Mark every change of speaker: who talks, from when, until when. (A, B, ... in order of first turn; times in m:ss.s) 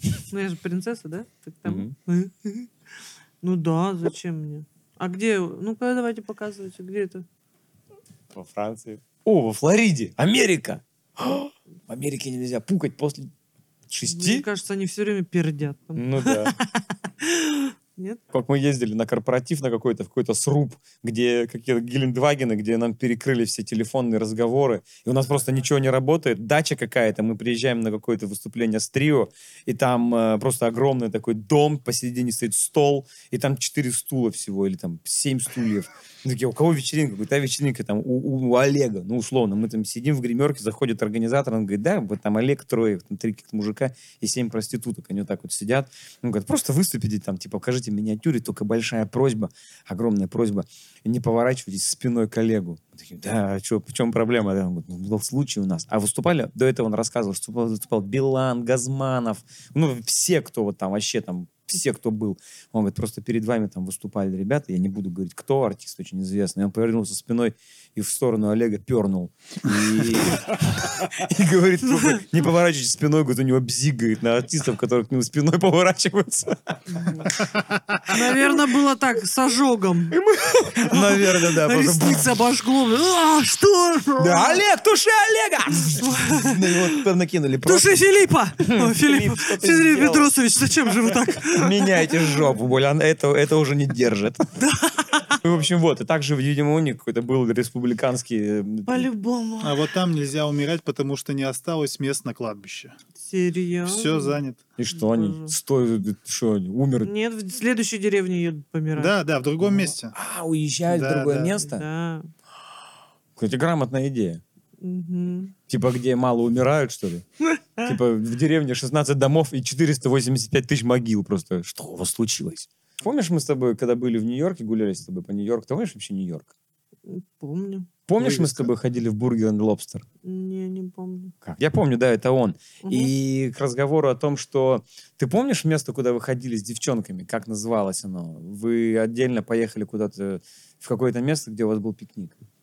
0:00.3-0:02.7 A
0:01.6-0:01.9 B
0:03.4-0:07.2 A
0:08.3-0:13.3 B
0:13.9-0:14.4 B
0:14.1-0:18.2 A
0:16.0-0:16.5 B
0:18.3-1:17.1 B
1:11.9-1:12.2 A
1:16.9-1:17.3 A
1:18.0-1:20.2 A
1:20.1-1:22.3 B
1:20.7-1:24.6 A
1:24.2-1:27.9 B
1:25.8-1:27.0 A
1:27.6-1:32.5 A
1:28.6-1:30.3 B
1:31.4-1:34.5 B
1:34.6-1:35.4 A
1:35.4-1:39.1 B
1:38.9-1:39.9 A
1:39.6-1:42.9 C
1:43.2-1:44.4 A
1:43.8-1:44.6 C
1:44.8-1:47.1 B
1:44.9-1:45.5 A
1:47.0-1:49.1 A
1:49.0-1:50.1 C
1:49.6-1:51.8 B
1:50.9-1:51.6 C
1:51.6-1:52.3 A
1:53.4-1:54.4 B
1:54.8-1:55.5 A
1:55.7-1:57.2 B
1:57.5-1:57.9 A
1:57.8-2:06.5 B
2:07.0-2:07.9 A
2:08.1-2:10.0 B
2:08.2-2:08.7 C
2:10.2-2:11.3 A
2:11.4-2:22.4 B
2:12.8-2:13.1 A